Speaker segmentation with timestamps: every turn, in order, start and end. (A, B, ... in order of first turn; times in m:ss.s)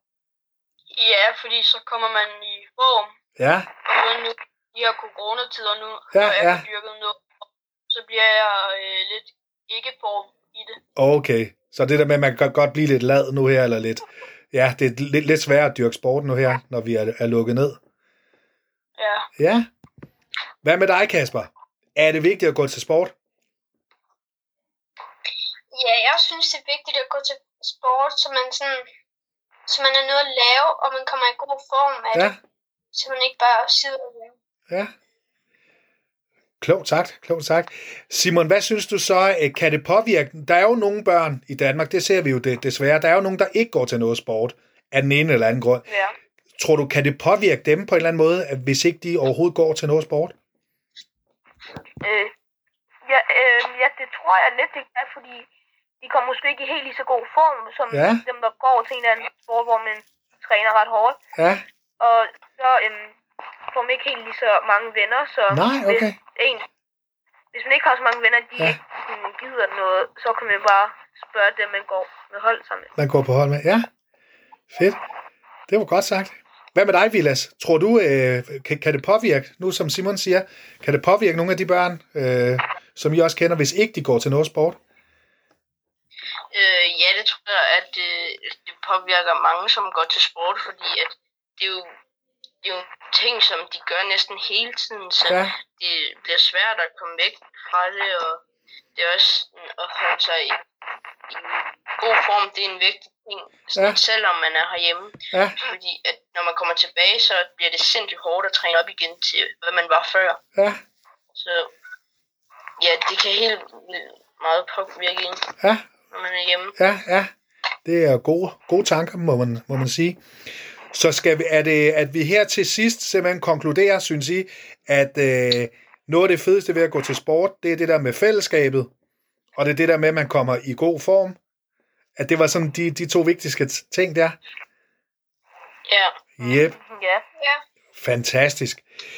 0:00.9-0:03.1 A
0:03.4-0:03.7 B
0:03.8-0:07.2 A
0:06.1-0:06.6 B
0:07.9-0:10.8 A
0:11.0-0:17.8 B
0:19.0-0:19.3 A
0:19.4-0:19.7 B
0:20.6-0:23.1 B
0:25.7-0:28.8 C
0:29.7-0:32.4 C
0:32.9-0:34.4 C
0:36.6-0:45.8 B
0:45.9-0:46.1 D
0:46.6-0:50.3 B
0:52.0-0:52.3 D
0:53.0-0:55.5 D
0:56.0-1:01.2 D
0:57.9-0:58.2 B
1:01.4-1:01.6 B
1:02.0-1:03.1 D
1:03.7-1:06.6 D
1:05.5-1:06.2 B
1:07.5-1:12.9 D
1:13.0-1:13.9 B
1:14.7-1:15.0 B
1:15.7-1:24.8 B
1:26.5-1:31.9 E
1:32.6-1:38.4 E
1:35.3-1:35.6 B
1:38.9-1:40.6 E
1:41.3-1:50.4 E
1:45.3-1:45.6 B
1:50.6-1:50.8 B
1:51.3-1:51.7 E
1:52.8-1:55.5 E
1:55.6-1:55.9 B
1:56.1-1:56.7 E
1:56.8-1:57.3 B
1:57.8-2:00.2 B
2:00.9-2:08.9 B
2:09.6-2:11.4 B
2:12.2-2:14.4 B
2:15.8-2:16.2 E
2:16.4-2:16.7 B
2:16.4-2:17.2 D
2:17.9-2:18.8 B